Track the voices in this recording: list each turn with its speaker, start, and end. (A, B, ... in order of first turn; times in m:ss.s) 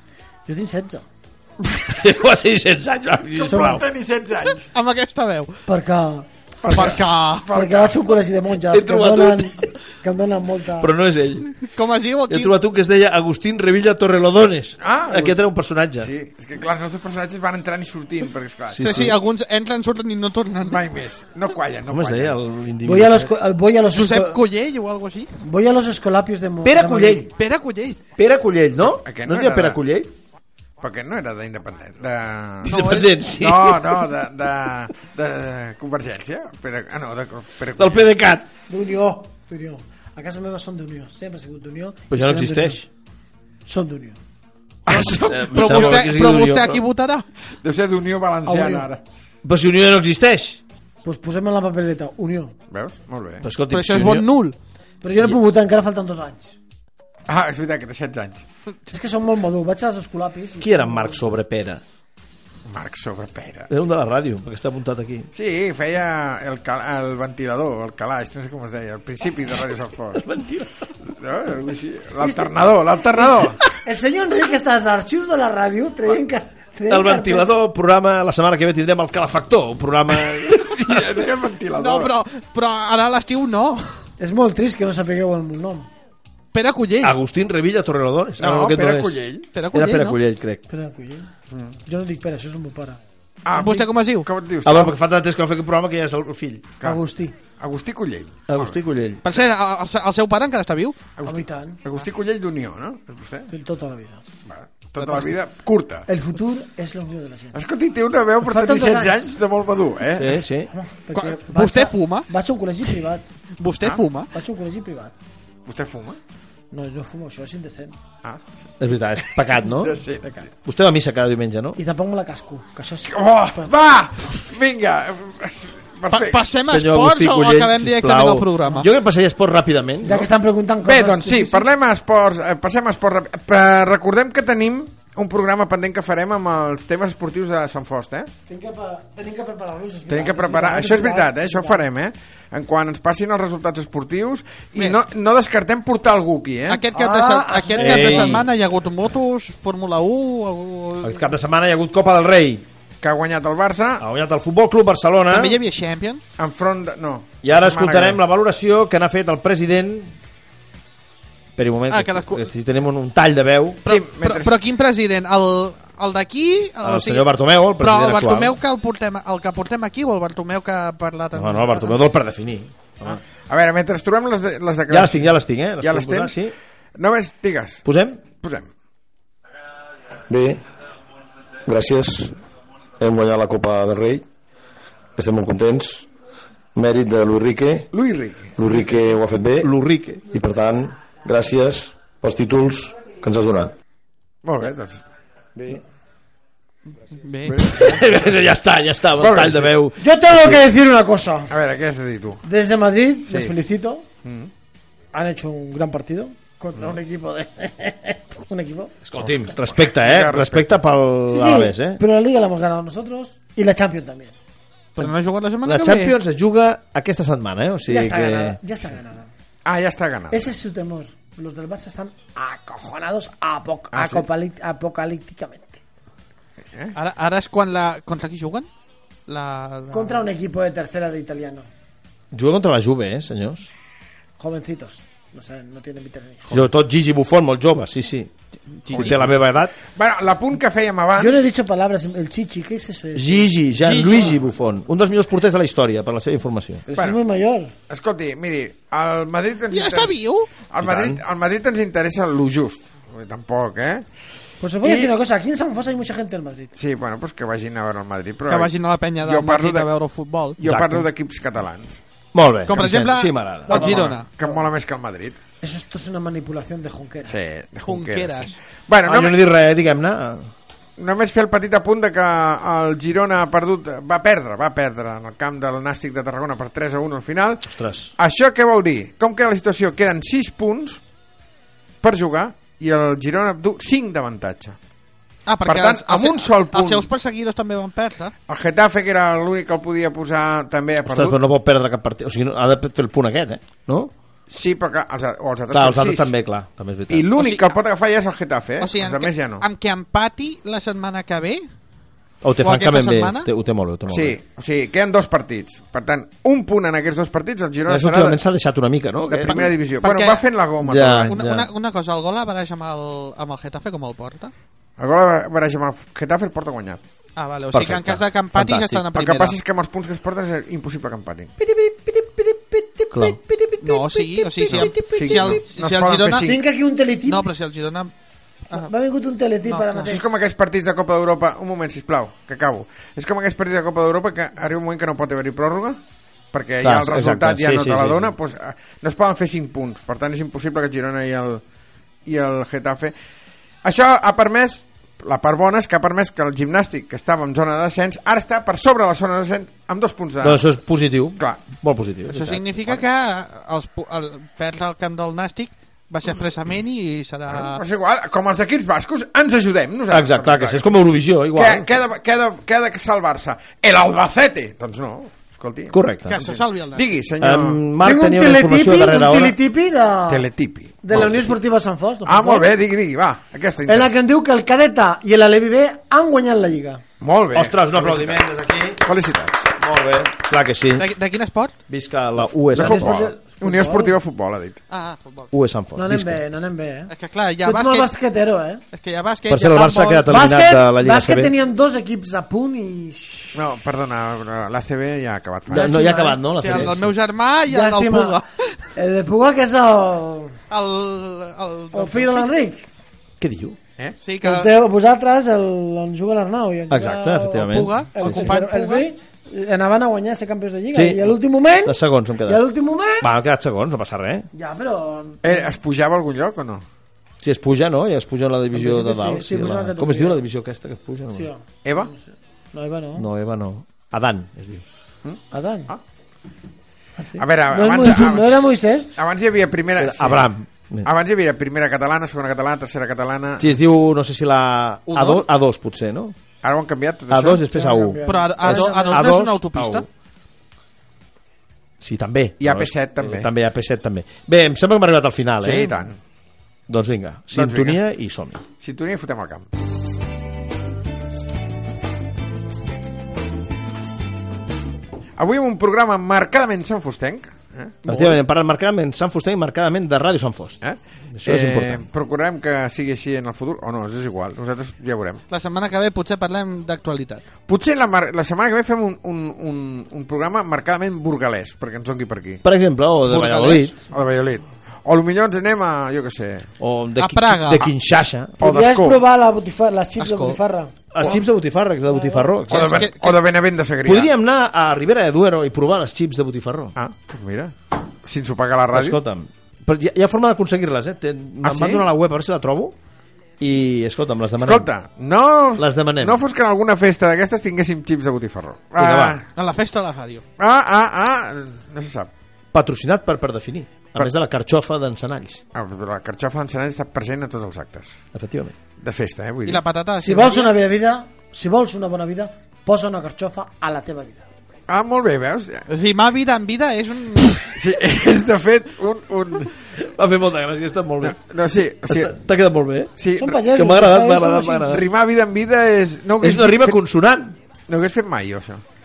0:00.5-0:01.1 A
0:01.6-0:03.8 B
0:03.3-0:04.6 C
0:03.5-0:03.8 A
0:04.5-0:05.6 D
0:05.7-0:06.3 A
0:06.6-0:08.2 C
0:06.7-0:07.6 D
0:07.5-0:10.9 A
0:08.7-0:09.7 B
0:10.8-0:11.5 B
0:11.5-0:12.6 D
0:12.3-0:16.1 B
0:14.8-0:15.4 C
0:16.0-0:19.1 C
0:18.7-0:19.2 B
0:18.8-0:20.8 D
0:20.6-0:22.4 C
0:21.9-0:23.3 B
0:22.8-0:24.4 A
0:23.9-0:25.4 D
0:25.4-0:27.3 A
0:26.6-0:27.3 B
0:27.4-0:28.0 D
0:28.2-0:30.1 B
0:28.8-0:29.8 C
0:30.8-0:38.0 C
0:32.6-0:34.1 B
0:32.7-0:33.2 D
0:37.8-0:38.5 B
0:38.7-0:42.8 A
0:42.1-0:42.9 B
0:43.7-0:44.2 A
0:44.9-0:46.2 C
0:44.9-0:46.8 B
0:45.4-0:47.3 D
0:47.6-0:49.0 C
0:48.5-0:48.9 A
0:49.4-0:50.6 B
0:51.0-0:52.6 A
0:52.7-0:53.5 C
0:53.4-0:54.3 B
0:53.7-0:54.6 D
0:55.0-0:56.6 A
0:57.3-0:58.5 C
0:58.9-1:01.3 A
1:00.6-1:01.8 B
1:02.7-1:03.7 C
1:03.7-1:05.3 B
1:05.3-1:10.2 C
1:10.1-1:10.8 B
1:11.1-1:13.6 C
1:13.7-1:17.5 A
1:16.9-1:21.3 B
1:20.5-1:22.1 C
1:21.7-1:24.0 D
1:24.2-1:25.9 A
1:26.5-1:27.2 D
1:27.0-1:30.6 B
1:28.4-1:29.5 C
1:29.5-1:30.2 D
1:30.7-1:31.3 A
1:31.5-1:31.8 C
1:31.9-1:33.0 A
1:33.4-1:35.0 C
1:33.5-1:34.3 D
1:34.6-1:36.8 B
1:36.8-1:37.4 A
1:37.6-1:38.8 C
1:38.5-1:39.2 B
1:39.2-1:41.0 D
1:41.2-1:43.5 C
1:41.2-1:41.8 A
1:43.5-1:44.2 A
1:44.5-1:46.1 C
1:45.0-1:45.3 D
1:46.1-1:47.6 A
1:47.5-1:50.4 C
1:48.4-1:49.4 A
1:50.1-1:50.7 B
1:50.7-1:53.2 A
1:51.1-1:52.3 D
1:53.6-1:54.3 D
1:54.3-1:55.2 A
1:55.7-1:56.2 C
1:56.7-1:58.0 A
1:58.8-2:00.0 B
1:59.6-2:00.4 C
2:00.6-2:01.8 B
2:01.8-2:03.7 A
2:03.1-2:06.4 C
2:06.1-2:08.9 D
2:06.6-2:10.3 B
2:10.0-2:11.7 A
2:10.8-2:18.3 C
2:18.5-2:21.8 A
2:20.1-2:26.9 C
2:26.7-2:31.3 D
2:26.9-2:28.5 A
2:27.8-2:28.5 B
2:31.0-2:32.7 B
2:33.0-2:34.0 C
2:34.0-2:35.6 B
2:35.3-2:36.2 D
2:36.4-2:38.2 C
2:37.4-2:40.2 B
2:41.6-2:43.8 B
2:41.9-2:42.5 D
2:43.8-2:52.0 D
2:43.9-2:44.6 C
2:46.8-2:48.6 B
2:51.3-2:53.2 B
2:53.1-2:56.4 C
2:54.9-2:56.6 B
2:57.0-2:57.8 C
2:57.8-2:58.2 B
2:58.4-2:58.7 C
3:00.3-3:00.6 E
3:01.7-3:02.4 E
3:03.0-3:04.2 E
3:05.2-3:06.1 E
3:06.8-3:07.9 E
3:07.9-3:08.6 C
3:08.6-3:09.7 E
3:09.6-3:10.2 B
3:10.3-3:13.7 E
3:14.4-3:15.0 C
3:17.2-3:18.0 D
3:17.5-3:18.3 C
3:17.6-3:20.7 B
3:19.2-3:19.7 C
3:20.0-3:21.5 A
3:21.5-3:22.4 C
3:22.4-3:24.0 A
3:23.3-3:23.5 C
3:24.2-3:24.5 C
3:25.1-3:29.0 A
3:29.0-3:32.0 B
3:29.2-3:30.7 C
3:31.3-3:34.4 A
3:35.0-3:36.2 D
3:35.6-3:38.6 B
3:37.9-3:39.3 A
3:39.6-3:40.5 C
3:40.3-3:45.8 A
3:43.9-3:44.2 C
3:47.0-3:48.7 D
3:49.3-3:50.3 D
3:49.9-3:51.6 A
3:52.3-3:53.7 B
3:54.4-3:56.6 A
3:56.5-3:58.3 B
3:58.8-3:59.2 D
3:58.9-3:59.8 B
3:58.9-4:01.5 C
4:01.2-4:04.3 A
4:03.2-4:06.9 B
4:03.8-4:04.4 C
4:06.9-4:07.7 A
4:07.0-4:07.2 C
4:07.9-4:10.2 C
4:09.7-4:10.5 D
4:10.7-4:14.1 C
4:10.8-4:11.2 B
4:14.6-4:16.7 A
4:14.8-4:15.1 C
4:16.8-4:19.9 C
4:18.5-4:20.6 D
4:20.6-4:22.0 C
4:20.6-4:21.1 B
4:22.3-4:24.2 B
4:22.7-4:24.3 D
4:23.7-4:25.4 C
4:25.6-4:27.5 A
4:27.3-4:29.4 C
4:27.8-4:28.5 D
4:29.0-4:30.5 B
4:31.0-4:41.0 C
4:37.7-4:38.1 B
4:42.0-4:44.8 C
4:45.5-4:48.3 D
4:45.6-4:47.1 C
4:48.5-4:51.4 C
4:51.0-4:54.1 B
4:54.5-4:56.3 C
4:55.7-4:57.3 B
4:57.1-4:59.6 C
4:57.4-4:57.8 D
4:58.8-5:01.7 D
5:02.4-5:04.4 B
5:02.6-5:03.5 D
5:04.1-5:08.4 C
5:07.9-5:09.8 B
5:09.3-5:11.4 C
5:10.0-5:10.4 D
5:10.8-5:11.7 B
5:11.3-5:14.5 D
5:15.0-5:17.0 C
5:17.4-5:19.6 D
5:17.7-5:19.1 B
5:19.2-5:21.5 C
5:21.6-5:24.2 A
5:23.1-5:25.5 B
5:23.8-5:26.5 D
5:24.7-5:26.6 C
5:26.4-5:27.5 A
5:27.3-5:28.1 D
5:28.7-5:30.3 A
5:29.7-5:30.1 D
5:30.0-5:36.0 C
5:36.5-5:41.6 C
5:36.8-5:38.4 B
5:42.3-5:43.1 C
5:43.8-5:50.6 C
5:50.4-5:52.9 B
5:52.3-5:57.8 D
5:57.5-6:00.9 C
6:00.1-6:02.0 B
6:01.5-6:07.8 C
6:05.9-6:06.4 B
6:06.3-6:07.1 D
6:07.4-6:09.6 B
6:08.0-6:10.5 A
6:10.3-6:11.4 C
6:11.0-6:12.7 A
6:11.1-6:11.4 B
6:12.3-6:14.2 C
6:13.9-6:17.0 A
6:17.2-6:18.4 C
6:17.5-6:19.1 B
6:19.0-6:19.7 C
6:19.8-6:21.1 B
6:21.0-6:21.8 D
6:21.9-6:23.1 B
6:22.7-6:24.8 C
6:22.7-6:24.2 A
6:24.9-6:25.5 D
6:25.5-6:26.4 B
6:26.0-6:27.1 A
6:27.1-6:28.1 D
6:27.6-6:28.8 A
6:28.9-6:30.3 D
6:29.5-6:31.5 B
6:30.2-6:33.6 A
6:33.6-6:36.2 C
6:35.7-6:37.2 B
6:35.7-6:36.9 A
6:36.6-6:38.7 D
6:37.7-6:38.4 A
6:39.0-6:40.6 A
6:40.7-6:42.5 D
6:41.9-6:42.9 A
6:43.4-6:43.8 B
6:44.2-6:44.7 D
6:44.4-6:53.3 A
6:46.9-6:48.6 B
6:47.5-6:49.1 D
6:50.9-6:52.6 B
6:53.2-6:54.5 B
6:54.5-6:55.7 A
6:55.4-6:56.9 C
6:57.4-7:01.5 B
6:58.7-7:00.4 A
7:01.3-7:03.3 A
7:01.8-7:02.1 C
7:03.2-7:04.8 B
7:05.2-7:06.0 C
7:05.5-7:05.9 A
7:07.2-7:09.2 A
7:07.4-7:10.5 C
7:10.0-7:11.1 B
7:11.0-7:13.8 C
7:13.6-7:16.4 B
7:15.1-7:15.5 D
7:16.6-7:17.6 C
7:17.3-7:20.1 B
7:17.7-7:19.3 A
7:18.3-7:20.1 D
7:22.0-7:26.0 B
7:22.6-7:23.5 C
7:25.6-7:26.2 C
7:26.9-7:28.6 B
7:27.5-7:28.0 C
7:28.8-7:29.7 C
7:35.4-7:38.0 C
7:38.0-7:40.8 B
7:38.1-7:38.4 D
7:40.8-7:45.4 C
7:41.3-7:42.1 B
7:45.5-7:47.4 D
7:47.7-7:52.6 C
7:52.6-7:54.0 B
7:53.3-7:53.9 D
7:54.1-7:56.7 C
7:56.8-7:58.6 B
7:57.2-7:57.9 D
7:58.6-7:59.2 C
7:58.6-8:00.9 A
8:00.2-8:00.6 D
8:01.1-8:03.1 B
8:02.1-8:02.6 A
8:02.7-8:04.3 C
8:02.7-8:03.4 D
8:04.0-8:07.0 B
8:07.0-8:09.2 C
8:08.9-8:13.0 B
8:11.6-8:12.1 C
8:13.6-8:14.9 B
8:14.6-8:19.5 C
8:15.8-8:16.4 B
8:19.0-8:19.4 B
8:19.6-8:20.4 D
8:20.6-8:22.3 C
8:22.7-8:25.6 B
8:25.7-8:28.2 C
8:28.3-8:28.7 B
8:29.0-8:29.8 C
8:29.7-8:30.7 D
8:30.2-8:34.4 A
8:34.9-8:35.8 C
8:35.9-8:37.8 D
8:37.8-8:39.7 C
8:40.0-8:41.4 B
8:41.2-8:42.4 C
8:42.0-8:45.1 B
8:43.2-8:43.6 C
8:43.4-8:45.0 A
8:44.9-8:47.0 C
8:46.4-8:47.6 B
8:47.9-8:48.8 C